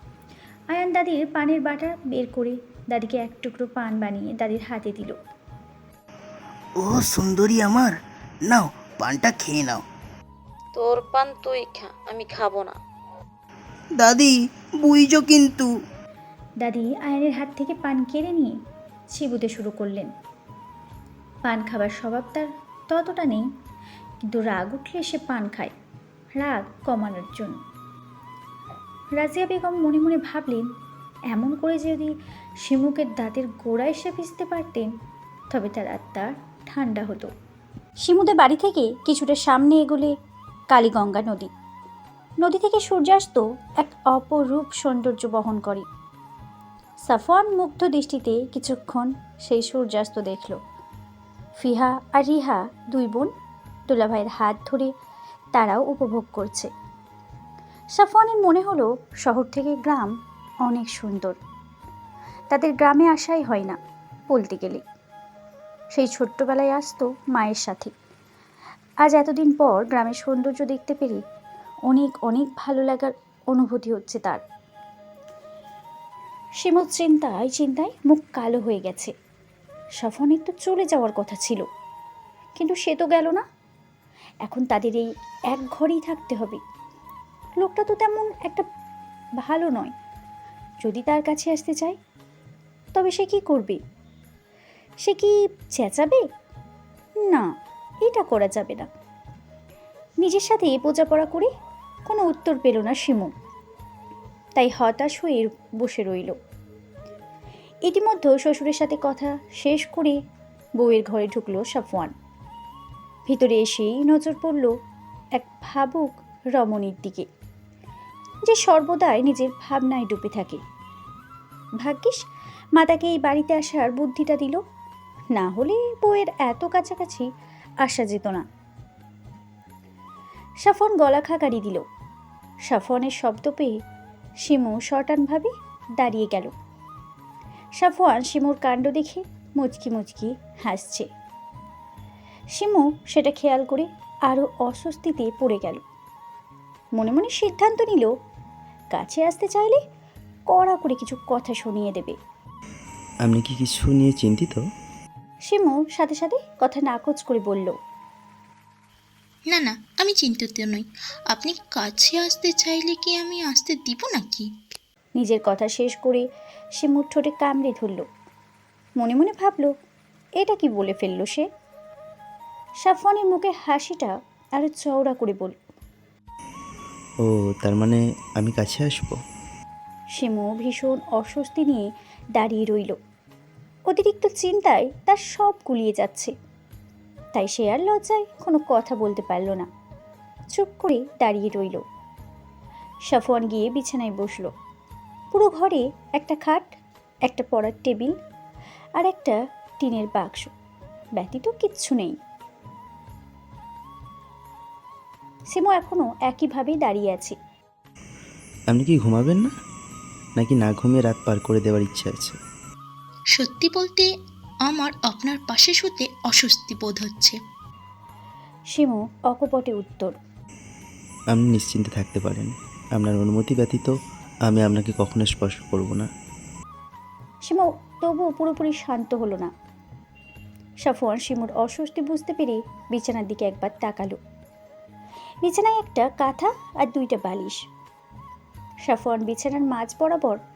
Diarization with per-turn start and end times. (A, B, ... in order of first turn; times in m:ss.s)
0:00.7-0:05.2 A
0:06.8-0:09.8 B
0:10.7-0:12.8 C
0:14.0-0:15.7 B
0:16.6-0:18.5 A
0:19.1-0:20.1 A
0:21.4-0:23.4 A
0:24.3-0:25.7 A
0:26.4-0:27.6 A
0:29.2-0:30.6 A
0:31.3-0:32.1 A
0:32.6-0:34.9 A
0:35.5-0:37.3 A
0:38.0-0:40.1 A
0:40.7-0:41.5 A
0:42.4-0:45.8 A
0:47.1-0:50.6 A
0:51.6-0:53.3 A
0:53.9-0:54.9 A
0:55.5-0:56.7 A
0:57.9-1:00.1 A
1:00.6-1:01.4 A
1:02.5-1:03.8 A
1:04.3-1:04.8 A
1:05.9-1:07.9 A
1:09.0-1:11.2 A
1:11.9-1:14.4 A
1:16.6-1:19.1 A
1:20.0-1:21.6 A
1:22.6-1:23.4 A
1:24.4-1:26.6 A
1:27.6-1:28.6 A
1:29.4-1:29.9 A
1:30.8-1:32.0 A
1:32.9-1:33.8 A
1:35.0-1:36.2 A
1:38.0-1:38.9 A
1:40.2-1:41.5 A
1:42.1-1:43.3 A
1:44.6-1:46.3 A
1:47.8-1:50.2 A
1:50.8-1:52.1 A
1:53.3-1:54.7 A
1:55.4-1:57.3 A
1:58.5-2:00.6 A
2:01.8-2:02.2 A
2:02.8-2:04.6 A
2:05.3-2:07.3 A
2:07.8-2:08.4 A
2:10.6-2:11.8 A
2:12.7-2:13.8 A
2:14.4-2:16.5 A
2:17.8-2:21.1 A
2:22.6-2:25.8 A
2:27.0-2:28.1 A
2:28.9-2:29.8 A
2:30.5-2:32.2 A
2:33.2-2:34.6 D
2:35.5-2:37.7 A
2:39.5-2:44.5 E
2:45.2-2:46.2 A
2:46.8-2:48.0 A
2:49.0-2:49.7 A
2:50.4-2:51.4 A
2:52.8-2:55.6 A
2:57.2-2:59.2 D
3:00.2-3:03.0 A
3:03.9-3:06.3 A
3:07.3-3:09.7 A
3:10.5-3:11.8 A
3:13.1-3:14.5 A
3:15.3-3:16.7 A
3:17.3-3:18.1 A
3:19.0-3:20.5 A
3:21.2-3:22.2 A
3:25.5-3:27.4 A
3:28.7-3:29.5 D
3:30.4-3:32.4 D
3:33.3-3:34.1 E
3:34.7-3:37.4 E
3:38.7-3:40.1 A
3:41.3-3:43.9 D
3:44.5-3:46.1 D
3:47.4-3:49.5 A
3:50.8-3:54.2 A
3:55.4-3:57.6 A
3:58.9-4:00.4 A